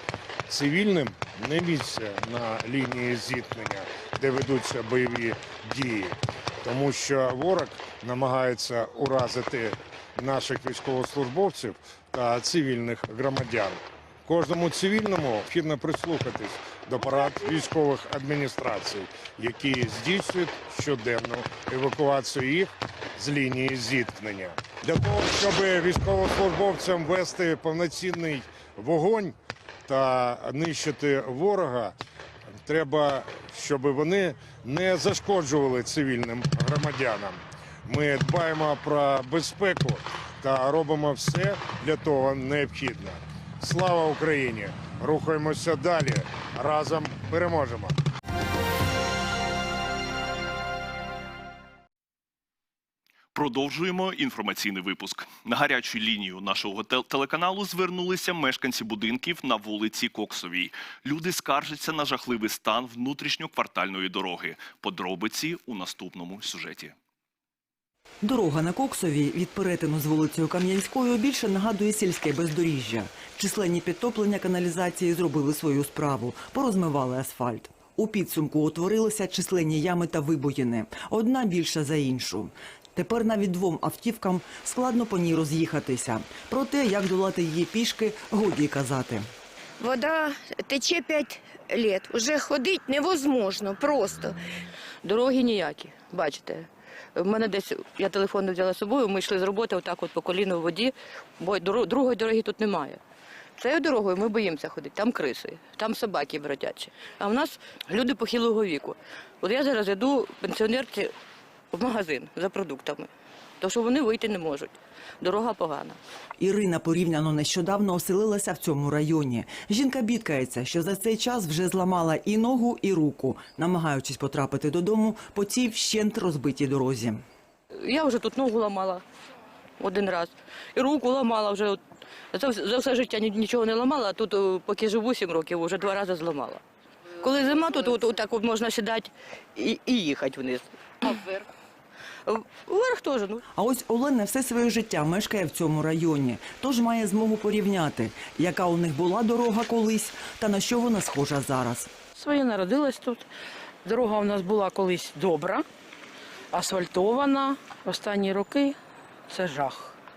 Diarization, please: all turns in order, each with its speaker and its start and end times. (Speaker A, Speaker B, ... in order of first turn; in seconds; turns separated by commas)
Speaker A: 0.5-29.4, Speaker A: 29.9-31.9, Speaker A: 32.6-48.0, Speaker B: 53.3-66.9, Speaker C: 68.2-89.3, Speaker D: 89.8-94.4, Speaker E: 95.0-103.0, Speaker E: 103.6-111.1, Speaker E: 111.7-116.0, Speaker C: 116.4-127.2, Speaker E: 127.8-129.0, Speaker E: 129.8-131.8, Speaker E: 132.3-136.6, Speaker E: 137.2-141.5, Speaker E: 142.2-143.4, Speaker C: 143.6-151.9, Speaker F: 152.2-153.3, Speaker F: 153.8-155.6, Speaker F: 156.5-158.8, Speaker F: 159.3-160.0